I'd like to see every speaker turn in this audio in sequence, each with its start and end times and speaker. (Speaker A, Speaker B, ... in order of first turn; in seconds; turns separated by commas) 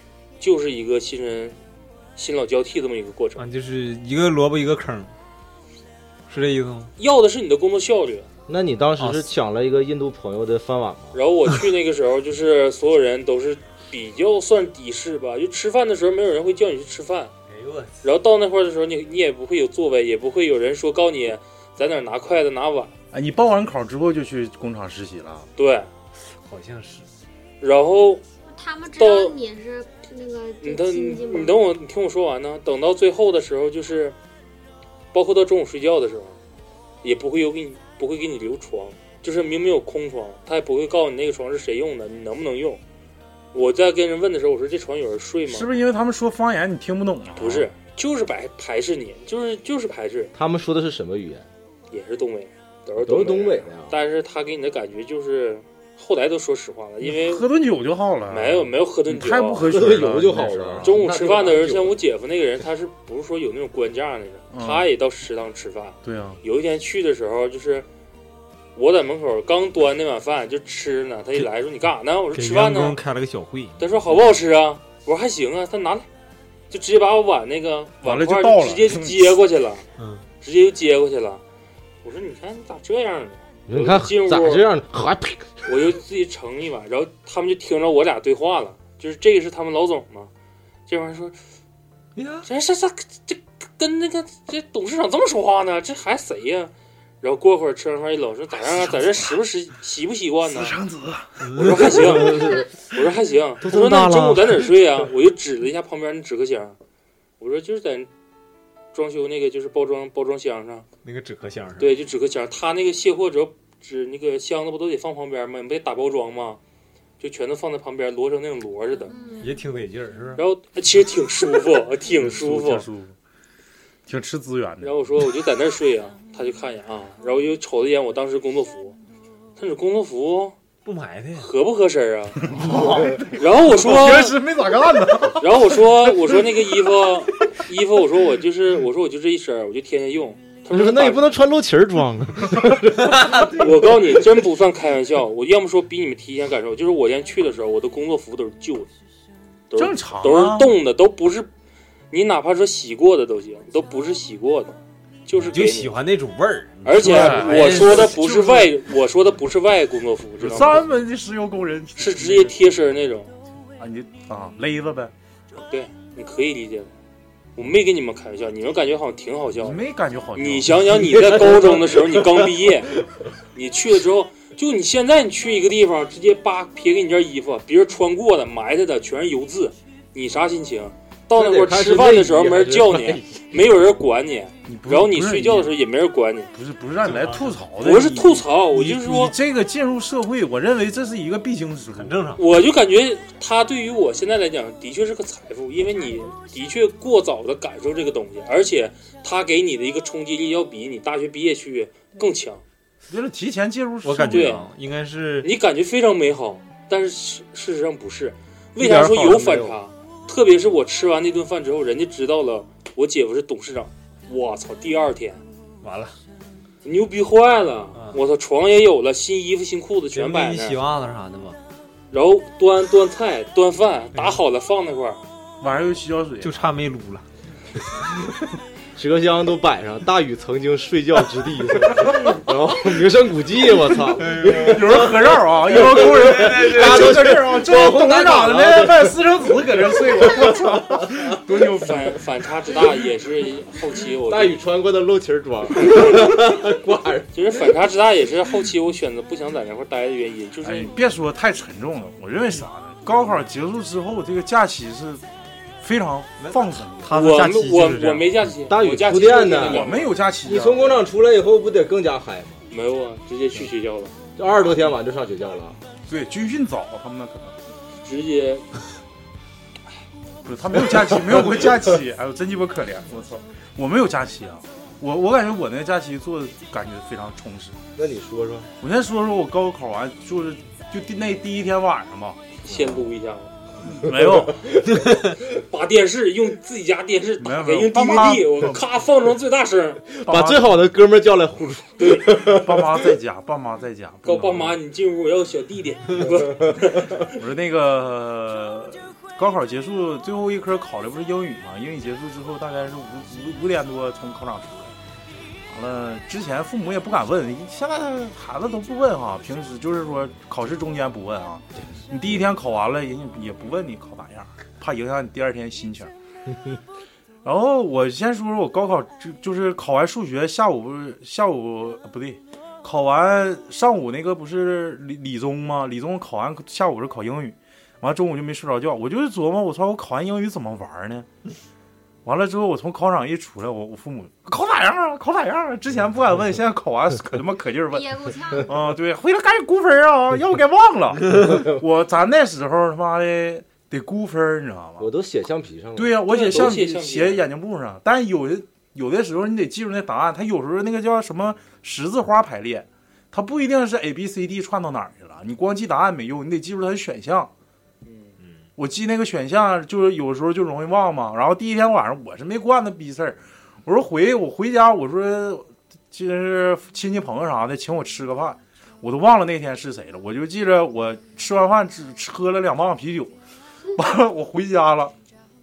Speaker A: 0.4-1.6, Speaker A: 2.2-3.4, Speaker B: 3.4-5.1, Speaker B: 6.3-6.9, Speaker A: 7.0-8.3, Speaker C: 8.5-11.2, Speaker B: 9.0-9.3, Speaker A: 11.1-17.3, Speaker B: 17.5-18.0, Speaker A: 18.0-22.9, Speaker D: 23.1-25.5, Speaker A: 25.6-25.9, Speaker B: 26.4-27.1, Speaker A: 27.6-28.2, Speaker E: 28.5-31.6, Speaker A: 29.0-29.4, Speaker A: 30.6-34.2, Speaker A: 35.1-36.4, Speaker A: 37.0-42.8, Speaker A: 43.5-45.7, Speaker D: 45.5-47.7, Speaker A: 47.4-50.3, Speaker C: 50.3-51.5, Speaker A: 51.9-57.4, Speaker C: 53.0-54.0, Speaker D: 57.0-61.0, Speaker A: 58.3-59.6, Speaker C: 59.7-62.0, Speaker A: 60.8-67.9, Speaker D: 64.5-64.9, Speaker D: 66.0-66.4, Speaker A: 68.8-73.0, Speaker B: 72.3-74.1, Speaker A: 73.8-76.1, Speaker A: 76.7-79.9, Speaker D: 78.0-79.3, Speaker B: 80.0-80.2, Speaker A: 80.4-81.4, Speaker A: 82.0-84.6, Speaker C: 83.7-85.7, Speaker A: 85.7-90.3, Speaker A: 90.9-91.4, Speaker B: 92.2-92.5, Speaker A: 92.4-100.8, Speaker D: 98.7-99.3, Speaker D: 100.5-101.4, Speaker B: 101.4-102.5, Speaker A: 101.5-106.8, Speaker C: 103.6-104.4, Speaker A: 107.4-108.1, Speaker A: 108.9-110.9, Speaker B: 111.0-111.9, Speaker A: 111.8-116.6, Speaker A: 117.2-119.1, Speaker E: 119.1-119.6, Speaker B: 119.4-120.4, Speaker A: 120.4-122.9, Speaker D: 122.1-123.2, Speaker D: 124.1-124.9, Speaker A: 124.8-129.0, Speaker A: 129.6-130.6, Speaker B: 130.8-131.5, Speaker A: 131.4-132.4, Speaker D: 132.5-136.1, Speaker A: 133.3-134.4, Speaker A: 135.4-141.3, Speaker C: 140.7-143.7, Speaker A: 143.5-148.9, Speaker A: 149.7-151.5, Speaker D: 149.8-150.8, Speaker A: 152.1-156.0, Speaker B: 155.3-158.4, Speaker A: 156.8-160.8, Speaker D: 157.0-158.7, Speaker D: 160.4-162.6, Speaker A: 162.0-163.3, Speaker D: 163.8-165.1, Speaker A: 165.6-166.9, Speaker A: 167.6-169.8, Speaker D: 169.6-171.1, Speaker A: 170.4-172.9, Speaker C: 171.3-172.2, Speaker A: 173.5-186.5, Speaker C: 181.3-183.6, Speaker D: 184.7-185.8, Speaker D: 186.5-192.2, Speaker B: 187.1-187.6, Speaker A: 187.8-189.3, Speaker B: 191.9-192.4, Speaker A: 192.4-202.6, Speaker D: 203.1-204.6, Speaker B: 204.0-205.5, Speaker A: 204.3-204.6, Speaker A: 205.4-215.4, Speaker B: 208.8-209.7, Speaker B: 215.8-216.1, Speaker A: 216.8-220.8, Speaker B: 220.1-221.6, Speaker A: 222.1-225.2, Speaker D: 225.6-226.6, Speaker B: 226.4-227.2, Speaker C: 228.9-241.4, Speaker B: 234.2-234.7, Speaker D: 234.5-242.2, Speaker B: 236.4-237.3, Speaker A: 241.8-244.6, Speaker C: 244.3-247.6, Speaker A: 247.3-250.9, Speaker D: 250.6-255.2, Speaker D: 255.8-257.2, Speaker B: 256.4-258.4, Speaker A: 257.1-260.1, Speaker C: 258.7-259.9, Speaker D: 259.5-261.0, Speaker C: 260.4-262.6, Speaker A: 262.7-264.1, Speaker C: 264.4-265.8, Speaker D: 266.1-267.6, Speaker A: 268.0-268.7, Speaker D: 270.4-277.8, Speaker C: 278.0-278.7, Speaker D: 278.8-282.4, Speaker A: 282.6-283.5, Speaker D: 283.9-284.6, Speaker C: 284.1-285.0, Speaker A: 285.6-290.0, Speaker D: 287.4-288.8, Speaker C: 290.1-293.1, Speaker D: 290.3-290.8, Speaker D: 292.4-294.8, Speaker A: 294.2-297.3, Speaker D: 297.3-304.9, Speaker D: 305.7-316.1, Speaker C: 316.5-316.7, Speaker D: 317.4-331.3, Speaker D: 332.2-345.1, Speaker E: 337.9-338.8, Speaker C: 345.0-346.7, Speaker D: 346.0-357.5, Speaker A: 346.3-347.5, Speaker A: 358.1-358.3, Speaker D: 358.8-373.3, Speaker D: 373.9-375.1